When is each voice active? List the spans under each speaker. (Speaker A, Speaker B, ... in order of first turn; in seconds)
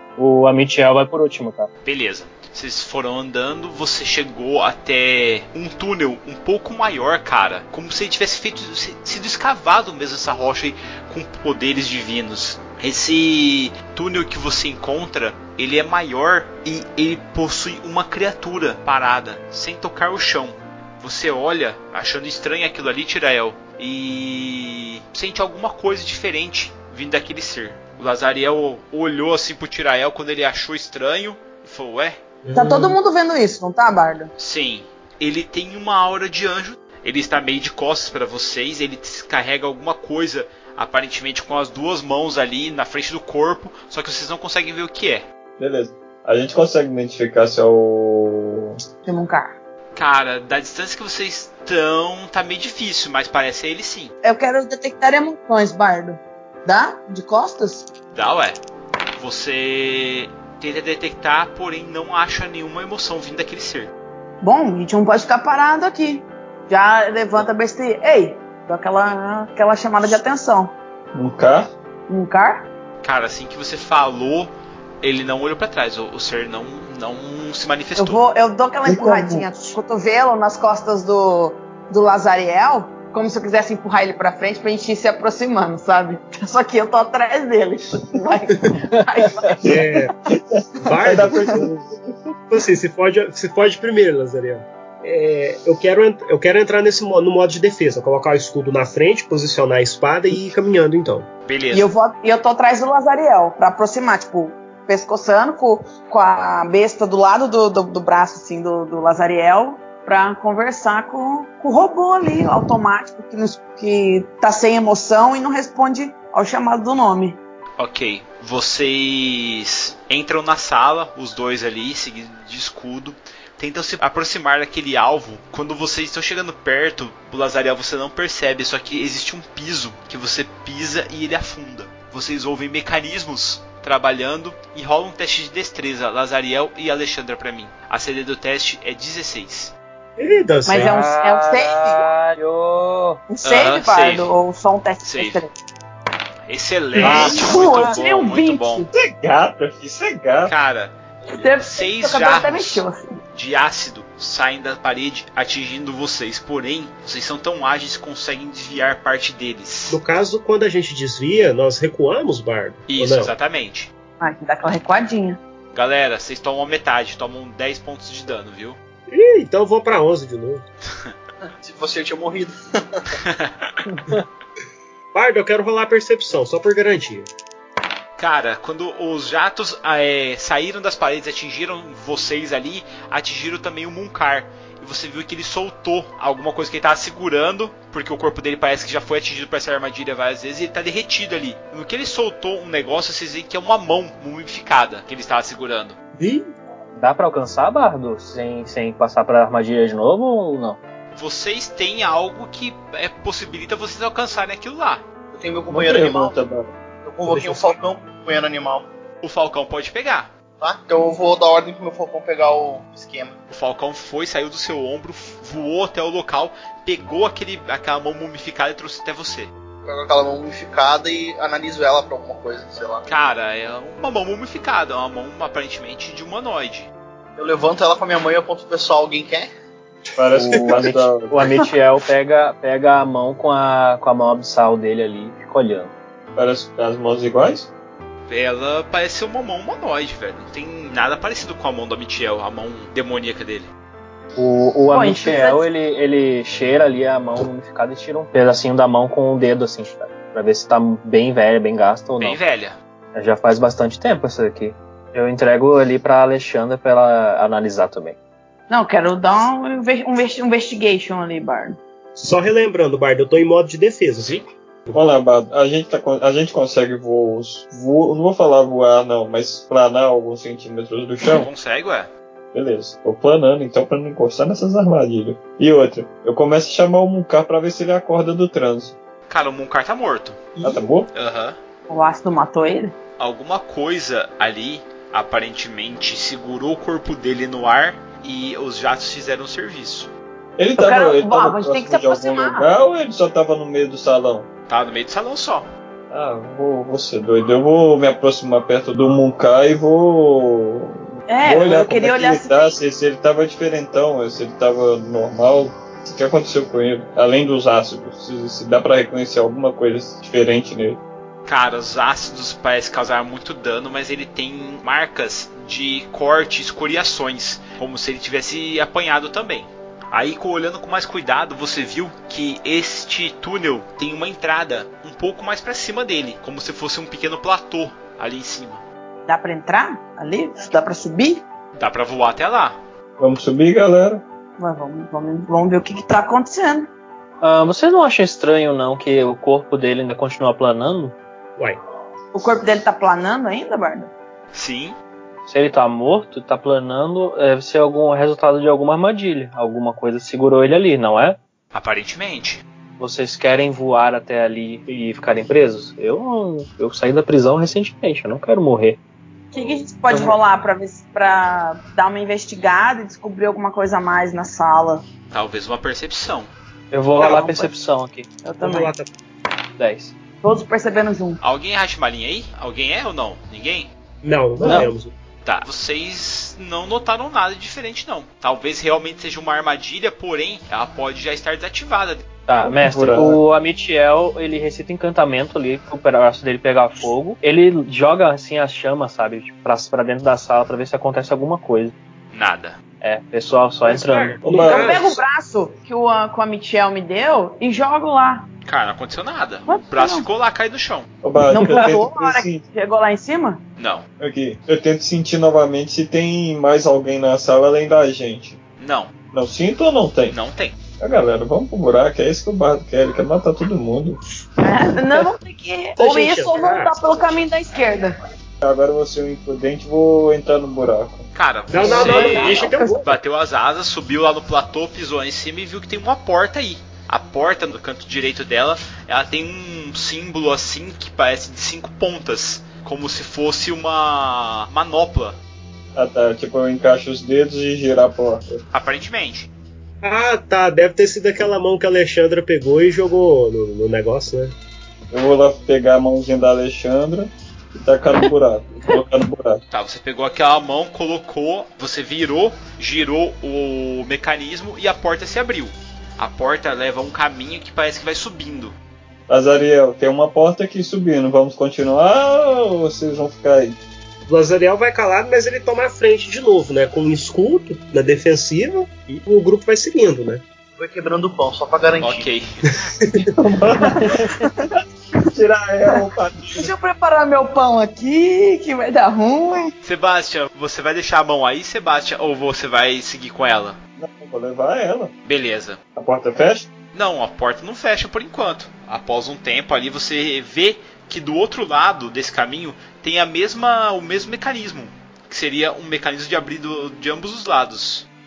Speaker A: 0.2-1.7, 140.8-143.2, 196.9-200.8, 230.6-235.9, 244.3-252.4, 253.1-258.2, 337.4-341.1, 345.5-351.4, 353.0-359.0, 360.1-360.4, 366.9-368.3, 369.8-370.1, 374.6-374.9, 382.5-391.9, 393.0-394.4
Speaker B: 1.8-32.2, 34.4-45.2, 49.9-54.1, 58.1-58.6, 59.2-63.9, 73.0-78.2, 101.5-101.9, 117.8-139.7, 143.4-144.3, 145.0-145.4, 146.5-148.9, 150.4-160.0, 162.9-163.9, 165.7-168.8, 173.2-173.8, 178.2-195.9, 201.1-205.0, 209.2-210.3, 213.5-219.5, 223.1-226.9, 238.3-243.7, 252.2-252.8, 271.2-272.1, 279.3-280.5, 281.1-281.6, 283.2-290.1, 294.7-295.7, 311.4-328.8, 331.8-332.8, 344.5-344.9, 351.7-352.6, 365.3-366.5, 371.4-373.9, 375.4-382.2, 392.3-392.8, 398.6-401.1, 403.8-404.0, 408.8-409.1, 410.3-410.8, 421.3-435.4, 438.7-439.5, 449.7-458.7, 472.0-472.8, 479.8-483.8, 485.3-485.8, 486.9-498.1
Speaker C: 32.4-33.0, 89.6-90.1, 90.8-91.6, 92.5-101.3, 140.2-141.0, 147.0-147.3, 159.9-163.3, 169.1-170.6, 175.1-177.3, 196.2-196.5, 207.2-207.8, 230.4-230.8, 262.1-265.0, 368.6-369.1, 374.2-375.1, 393.8-395.2, 416.0-417.4, 421.7-423.1, 440.0-444.5, 464.3-470.4, 472.6-473.3
Speaker D: 32.5-34.3, 49.0-49.5, 54.2-57.9, 64.4-70.7, 72.1-72.7, 78.0-89.8, 101.7-117.4, 140.7-142.1, 143.3-145.5, 147.0-148.9, 151.3-153.1, 164.2-165.4, 244.9-245.7, 258.7-261.8, 281.9-282.9, 290.8-292.7, 301.3-302.7, 329.3-331.4, 334.6-336.9, 342.3-344.1, 359.5-365.0, 367.2-367.7, 368.4-368.9, 370.4-371.4, 394.6-398.5, 399.7-400.3, 401.5-403.6, 414.6-418.1, 421.8-423.0, 473.8-474.5, 476.5-479.7
Speaker E: 45.6-48.8, 71.1-71.7, 78.8-79.5, 89.6-92.1, 148.9-150.5, 205.7-206.7, 230.2-231.5, 236.3-237.7, 264.9-271.5, 272.5-278.9, 280.6-281.1, 290.6-294.5, 296.1-311.0, 333.2-334.2, 374.6-374.9, 382.6-383.4, 394.4-395.0, 401.2-402.6, 404.2-408.6, 409.3-410.4, 411.0-414.2, 418.6-421.3, 435.9-438.6, 445.1-449.6, 459.3-463.8, 473.3-474.5, 475.3-476.7, 484.0-485.1, 485.9-486.7
Speaker F: 171.6-173.1, 205.3-206.3, 207.0-208.9, 210.6-213.4, 219.8-223.0, 227.3-229.5, 470.8-472.3